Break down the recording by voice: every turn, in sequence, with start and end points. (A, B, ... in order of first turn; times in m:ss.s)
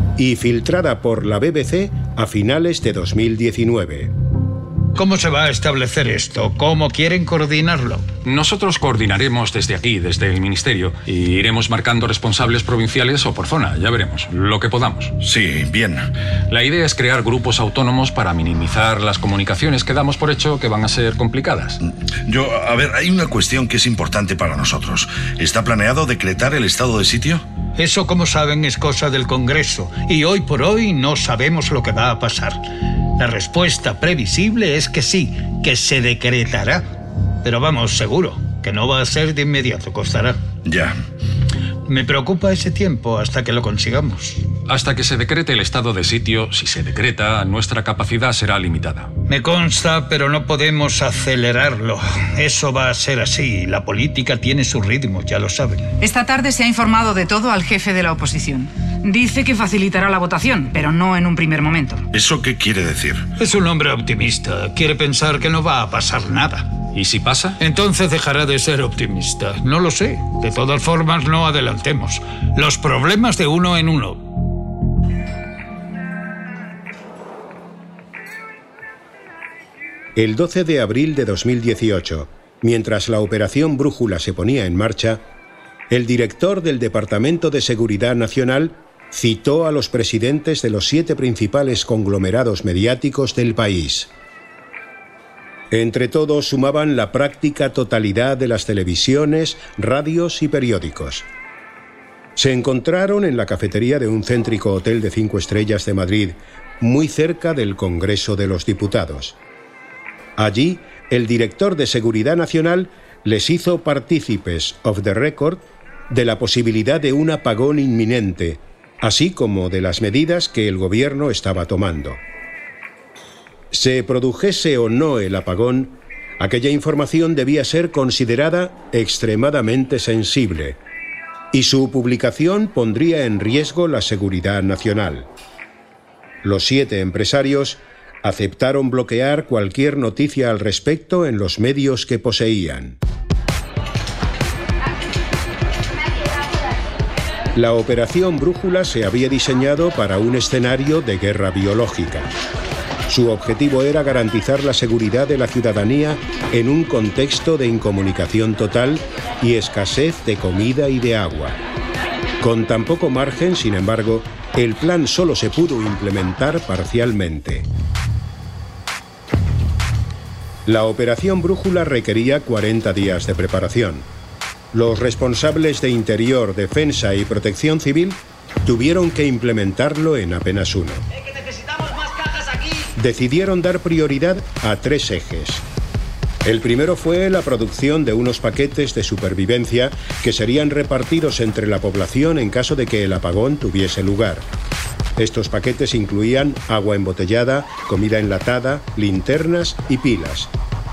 0:00.2-0:04.1 A
0:05.0-0:08.1 B
0:08.2-0:15.1 C
0:15.2-0:16.1 D
0:16.5-0:21.8 C
0:22.3-0:27.4 D
0:27.8-0:32.6 B
0:33.2-0:36.9 B
0:37.4-0:40.4 B
0:40.7-0:41.0 D
0:41.9-0:44.4 B
0:44.7-0:49.1 C
0:49.3-0:55.9 B
0:56.0-1:02.0 E
1:02.1-1:03.2 D
1:03.4-1:06.7 B
1:07.0-1:07.6 C
1:07.6-1:14.3 B
1:20.2-1:25.2 A
1:25.9-1:34.1 A
1:35.7-1:41.3 A
1:42.4-1:49.4 A
1:50.4-2:02.2 A
2:03.7-2:10.8 A
2:11.5-2:15.3 A
2:16.4-2:23.0 A
2:27.6-2:32.3 A
2:33.1-2:41.6 A
2:42.4-2:47.7 A
2:50.7-2:54.1 A
2:54.7-3:01.0 A
3:03.0-3:05.6 A
3:06.4-3:14.5 A
3:15.2-3:20.5 A